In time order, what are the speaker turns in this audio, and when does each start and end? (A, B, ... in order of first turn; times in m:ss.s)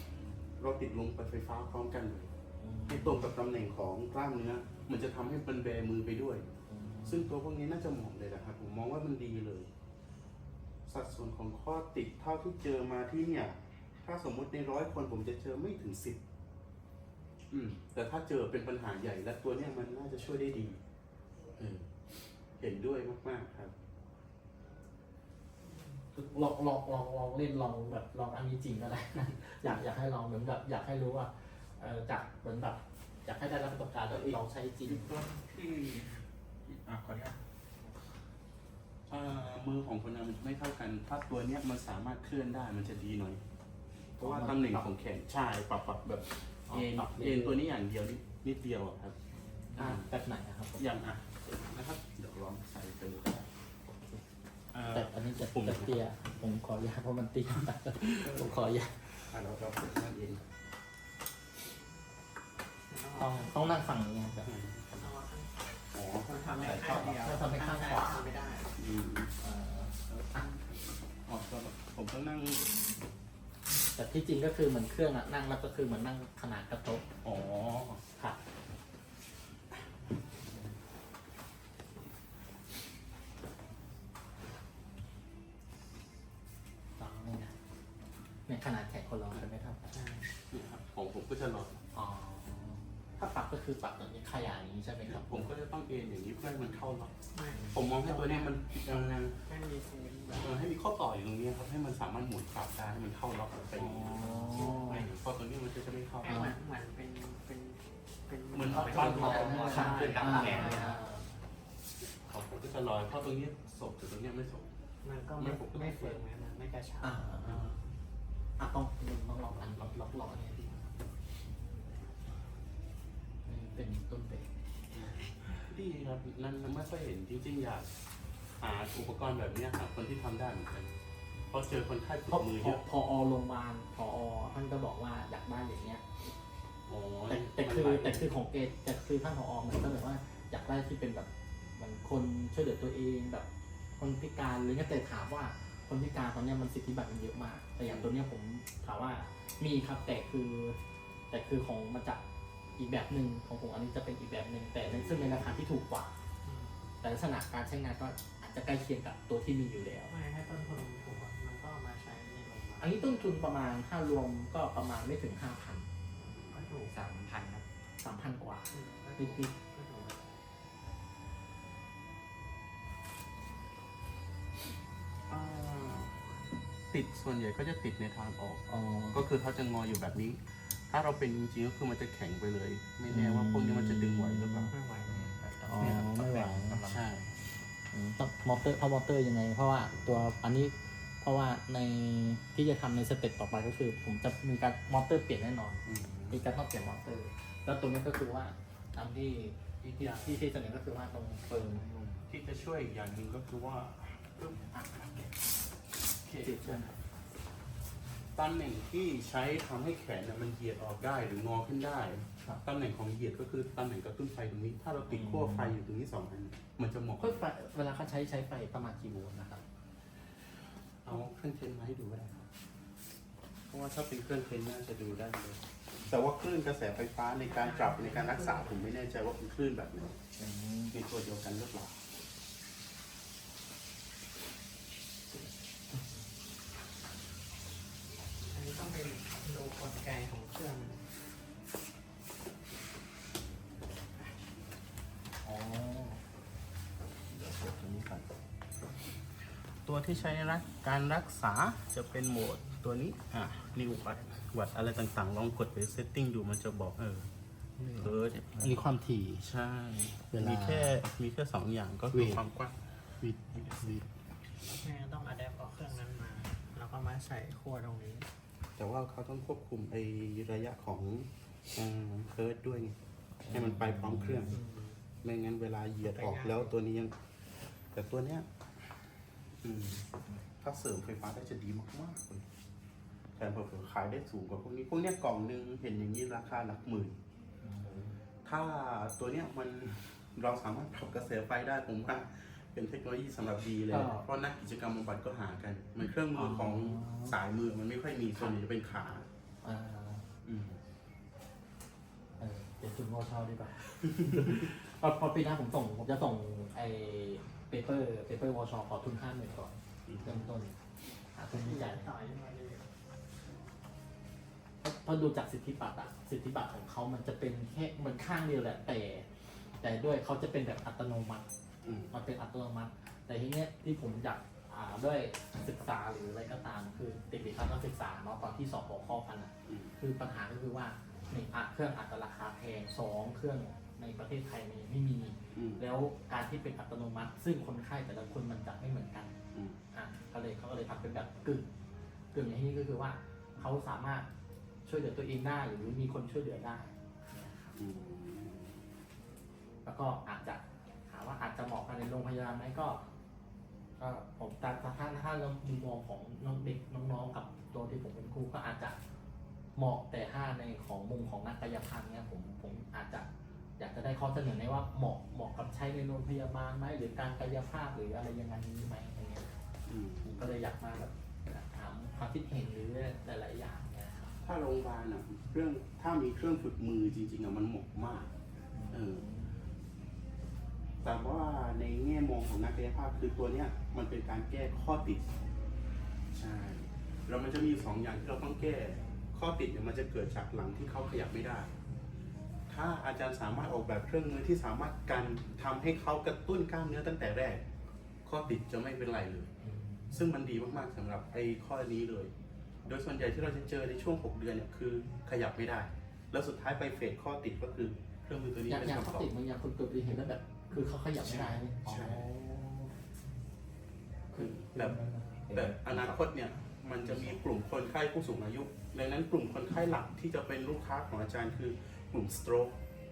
0:00.6-0:02.3 A
0:02.6-0:03.3 B
0:02.9-0:06.5 A
0:06.7-0:07.3 B
0:07.0-0:09.7 A
0:10.9-0:16.2 A
0:17.5-0:20.8 A
0:21.6-0:21.9 A
0:22.6-0:23.7 A
0:26.1-0:35.2 B
0:34.1-0:37.4 A
0:39.1-0:43.4 A
0:44.2-0:44.9 B
0:44.2-0:49.2 A
0:46.7-0:47.6 B
0:49.3-0:50.9 B
0:49.8-0:50.1 A
0:50.8-0:53.5 A
0:53.9-0:54.2 B
0:54.7-0:56.0 A
0:54.9-0:59.3 B
0:58.0-0:58.4 A
0:59.3-1:00.4 A
1:02.9-1:03.8 C
1:03.2-1:04.5 B
1:04.4-1:05.0 A
1:05.0-1:05.6 C
1:05.9-1:07.2 A
1:06.2-1:08.8 C
1:06.6-1:08.4 B
1:08.8-1:09.3 A
1:09.4-1:10.5 B
1:10.1-1:10.6 A
1:11.3-1:12.7 A
1:14.0-1:17.0 B
1:17.2-1:18.0 A
1:27.0-1:27.5 B
1:28.5-1:30.0 B
1:29.9-1:30.3 C
1:30.5-1:31.8 A
1:31.9-1:35.5 B
1:35.1-1:37.1 A
1:37.3-1:40.6 C
1:37.7-1:39.4 A
1:40.4-1:46.5 A
1:43.8-1:45.1 B
1:44.4-1:45.0 C
1:46.2-1:46.5 B
1:46.2-1:51.1 C
1:48.5-1:51.0 A
1:48.7-1:51.3 B
1:48.9-1:51.0 D
1:52.2-1:54.7 A
1:55.0-1:57.6 C
1:55.4-1:56.2 A
1:57.0-1:57.8 B
1:58.6-2:00.9 B
2:03.4-2:04.5 B
2:05.0-2:07.9 A
2:08.6-2:10.9 A
2:11.5-2:12.8 A
2:12.3-2:16.0 B
2:16.9-2:18.3 A
2:17.3-2:30.8 B
2:27.8-2:28.1 A
2:31.3-2:32.2 B
2:32.8-2:36.1 B
2:34.8-2:35.6 A
2:36.4-2:36.9 C
2:37.0-2:40.1 B
2:40.1-2:43.2 C
2:42.8-2:45.9 B
2:46.5-2:47.0 C
2:46.9-2:47.7 D
2:48.0-2:49.5 B
2:48.7-2:50.4 C
2:55.3-2:56.1 A
2:56.9-3:04.8 A
2:58.7-2:59.2 B
3:03.1-3:04.7 B
3:04.7-3:06.0 C
3:05.1-3:07.0 D
3:05.7-3:06.9 B
3:06.8-3:07.4 A
3:07.9-3:21.9 B
3:15.8-3:16.5 A
3:19.8-3:20.5 A
3:21.8-3:25.3 A
3:24.7-3:25.3 B
3:26.2-3:27.0 A
3:26.4-3:26.9 B
3:28.3-3:37.4 A
3:35.1-3:35.8 B
3:37.2-3:39.6 B
3:41.0-3:42.5 A
3:43.7-3:50.2 A
3:47.4-3:48.8 C
3:50.4-3:51.0 B
3:50.9-3:52.0 A
3:58.5-4:01.0 C
4:05.4-4:06.2 A
4:05.6-4:06.0 B
4:07.3-4:08.2 A
4:09.8-4:17.3 A
4:17.8-4:19.5 B
4:18.0-4:24.1 A
4:20.3-4:21.0 B
4:22.1-4:22.4 B
4:23.7-4:24.0 C
4:24.6-4:28.3 C
4:28.8-4:33.0 A
4:33.4-4:34.6 B
4:33.5-4:34.6 A
4:34.5-4:35.0 C
4:35.2-4:37.2 A
4:36.0-4:36.7 C
4:37.9-4:38.5 A
4:39.6-4:40.0 A
4:40.6-4:42.4 A
4:43.4-4:47.2 A
4:47.6-4:48.2 B
4:48.4-4:59.3 A
4:53.9-4:54.3 B
4:56.3-4:57.4 B
4:59.6-5:00.2 B
5:00.4-5:00.8 A
5:02.4-5:10.8 B
5:10.1-5:10.6 A
5:11.3-5:12.1 B
5:11.5-5:12.9 C
5:14.8-5:19.3 B
5:19.8-5:21.5 B
5:21.8-5:22.1 A
5:22.1-5:39.3 B
5:29.7-5:29.9 A
5:35.5-5:35.8 A
5:39.9-5:41.7 B
5:42.3-5:44.3 B
5:44.8-5:47.8 B
5:47.8-5:48.8 A
5:49.8-5:53.0 B
5:54.0-5:59.0 B
5:59.8-6:09.5 B
6:09.9-6:10.5 A
6:10.2-6:14.3 B
6:14.4-6:18.3 A
6:18.7-6:19.6 B
6:18.9-6:19.2 A
6:21.0-6:25.2 A
6:26.3-6:31.7 A
6:32.7-6:37.6 A
6:38.2-6:39.5 A
6:39.6-6:40.2 B
6:40.1-6:42.3 A
6:42.9-6:49.3 A
6:48.7-6:53.0 B
6:51.1-6:52.3 A
6:54.3-6:56.2 B
6:54.4-6:55.0 A
6:55.5-7:02.8 A
6:57.0-6:57.4 B